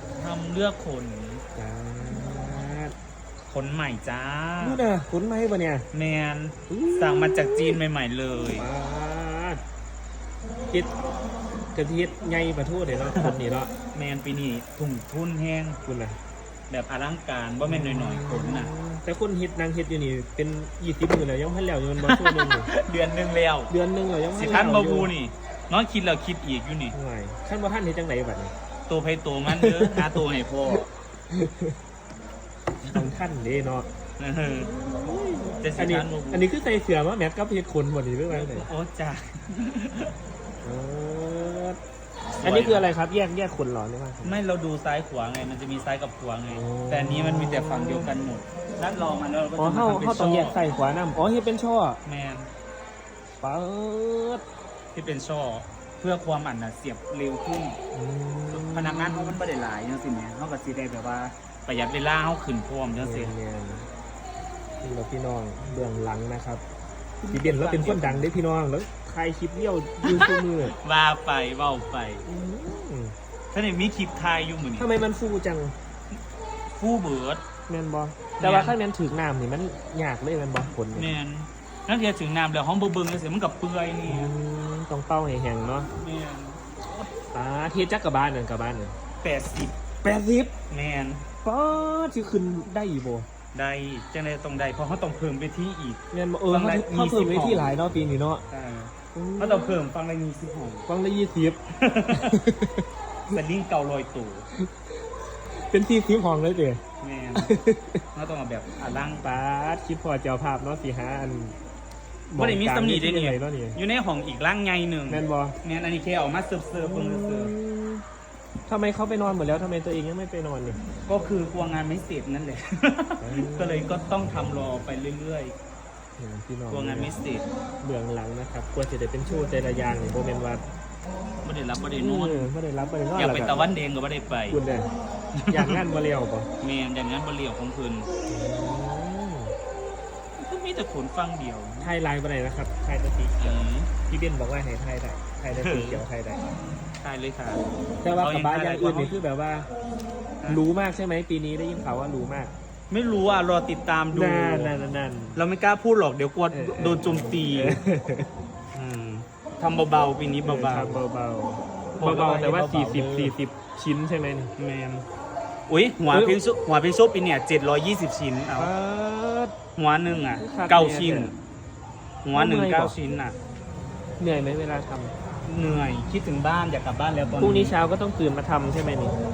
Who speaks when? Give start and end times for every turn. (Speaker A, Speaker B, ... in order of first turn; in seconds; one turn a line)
Speaker A: 0.1-1.4
Speaker B: 1.5-2.9
Speaker A: 3.4-4.8
Speaker B: 4.6-5.9
Speaker A: 5.9-8.7
Speaker B: 6.7-7.8
Speaker B: 8.5-9.6
Speaker B: 11.7-13.7
Speaker A: 13.9-15.8
Speaker B: 15.8-16.2
Speaker A: 16.7-18.7
Speaker B: 17.6-22.7
Speaker A: 22.0-23.7
Speaker B: 23.7-25.1
Speaker A: 24.3-26.9
Speaker B: 26.9-28.5
Speaker A: 28.9-30.9
Speaker B: 29.5-30.2
Speaker B: 30.8-31.8
Speaker A: 32.8-33.1
Speaker B: 32.9-33.9
Speaker A: 34.2-34.7
Speaker B: 34.7-38.7
Speaker A: 35.6-36.4
Speaker A: 38.3-40.1
Speaker B: 40.6-41.8
Speaker A: 42.4-42.9
Speaker B: 42.4-44.3
Speaker A: 44.2-50.6
Speaker B: 46.5-48.1
Speaker B: 49.6-52.0
Speaker A: 52.0-52.5
Speaker B: 53.4-54.4
Speaker A: 54.9-57.8
Speaker B: 57.9-59.4
Speaker A: 58.5-63.3
Speaker B: 63.0-63.9
Speaker B: 64.8-66.6
Speaker A: 67.2-68.3
Speaker B: 67.3-70.8
Speaker A: 70.0-72.2
Speaker B: 72.2-73.1
Speaker A: 73.5-74.9
Speaker B: 74.8-75.7
Speaker A: 76.7-77.4
Speaker B: 77.7-81.1
Speaker A: 78.4-78.8
Speaker A: 80.9-84.3
Speaker B: 84.1-85.9
Speaker A: 86.0-87.0
Speaker B: 87.3-88.9
Speaker A: 89.2-89.7
Speaker B: 90.0-90.5
Speaker A: 90.7-91.2
Speaker B: 91.4-93.3
Speaker A: 93.5-97.8
Speaker B: 96.1-98.4
Speaker A: 98.5-100.9
Speaker B: 99.1-99.8
Speaker B: 100.9-101.6
Speaker A: 101.7-102.4
Speaker B: 102.1-102.8
Speaker A: 103.3-104.5
Speaker B: 105.6-106.8
Speaker A: 107.0-107.5
Speaker B: 107.3-108.0
Speaker A: 108.1-109.2
Speaker B: 109.2-111.6
Speaker B: 112.3-113.8
Speaker A: 112.4-117.5
Speaker B: 115.1-115.6
Speaker B: 116.7-118.0
Speaker B: 118.7-120.8
Speaker A: 121.0-125.5
Speaker B: 123.2-124.0
Speaker B: 126.2-127.1
Speaker A: 126.7-127.4
Speaker B: 127.8-130.6
Speaker A: 131.4-132.5
Speaker B: 132.0-133.6
Speaker A: 133.1-134.6
Speaker B: 134.5-134.9
Speaker A: 135.3-135.8
Speaker B: 135.5-136.5
Speaker A: 136.6-138.1
Speaker B: 138.3-139.5
Speaker A: 140.4-141.9
Speaker B: 141.8-146.4
Speaker A: 143.4-143.9
Speaker A: 145.5-146.0
Speaker A: 147.0-149.2
Speaker B: 148.0-149.7
Speaker B: 150.5-152.5
Speaker A: 152.9-154.8
Speaker B: 154.1-155.4
Speaker A: 155.3-157.8
Speaker B: 156.5-158.3
Speaker A: 158.7-161.0
Speaker B: 160.4-164.5
Speaker A: 161.9-163.3
Speaker A: 164.6-165.1
Speaker A: 165.7-168.7
Speaker B: 166.1-166.4
Speaker B: 168.6-169.5
Speaker A: 169.8-171.3
Speaker B: 170.4-171.3
Speaker A: 172.2-173.3
Speaker B: 172.3-173.0
Speaker B: 174.2-175.2
Speaker A: 175.4-177.7
Speaker B: 177.4-179.2